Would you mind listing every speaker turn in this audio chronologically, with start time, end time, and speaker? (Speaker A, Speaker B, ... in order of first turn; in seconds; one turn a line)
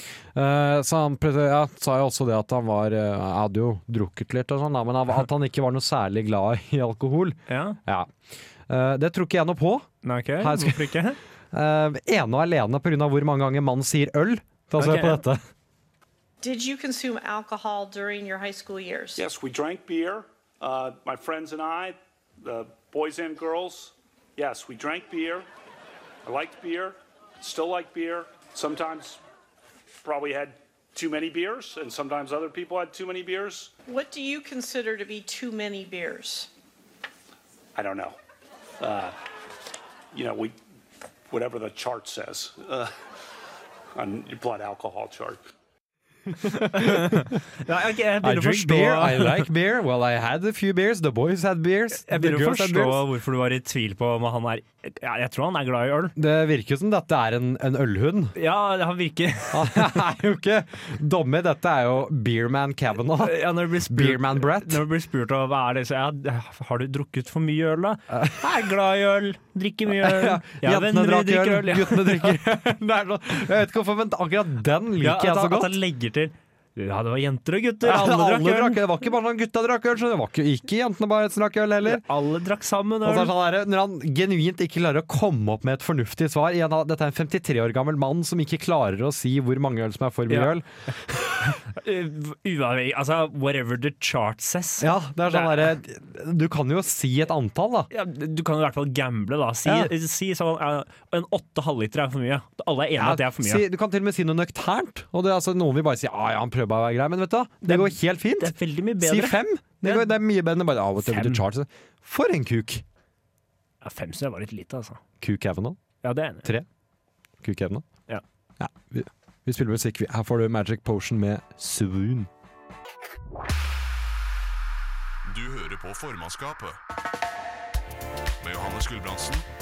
Speaker A: 0.3-8.1
Speaker B: 7.5-7.8
Speaker A: 8.7-11.0
Speaker B: 10.0-11.2
Speaker A: 11.5-15.4
Speaker B: 14.8-15.2
Speaker C: 16.4-19.2
Speaker D: 19.2-25.4
Speaker D: 26.2-29.2
Speaker D: 30.0-33.7
Speaker C: 33.9-36.5
Speaker D: 37.8-38.1
Speaker D: 38.8-39.1
Speaker D: 40.1-40.5
Speaker D: 41.3-42.9
Speaker D: 44.0-45.4
Speaker A: 46.4-47.3
Speaker B: 46.5-49.5
Speaker A: 48.2-53.0
Speaker B: 52.0-56.1
Speaker A: 56.1-58.3
Speaker B: 58.3-60.0
Speaker A: 59.5-64.8
Speaker B: 63.2-72.4
Speaker A: 68.1-68.4
Speaker A: 69.9-75.7
Speaker B: 75.0-78.8
Speaker A: 77.8-82.0
Speaker B: 81.8-83.3
Speaker A: 83.0-91.6
Speaker B: 90.3-90.5
Speaker B: 91.5-95.7
Speaker A: 94.8-97.9
Speaker B: 97.9-103.6
Speaker A: 99.6-99.9
Speaker A: 103.0-112.8
Speaker B: 107.6-110.1
Speaker B: 111.0-111.4
Speaker B: 113.8-115.0
Speaker A: 115.2-115.8
Speaker B: 116.0-116.5
Speaker A: 117.4-117.8
Speaker A: 118.6-122.3
Speaker E: 125.2-126.8
Speaker E: 128.4-129.4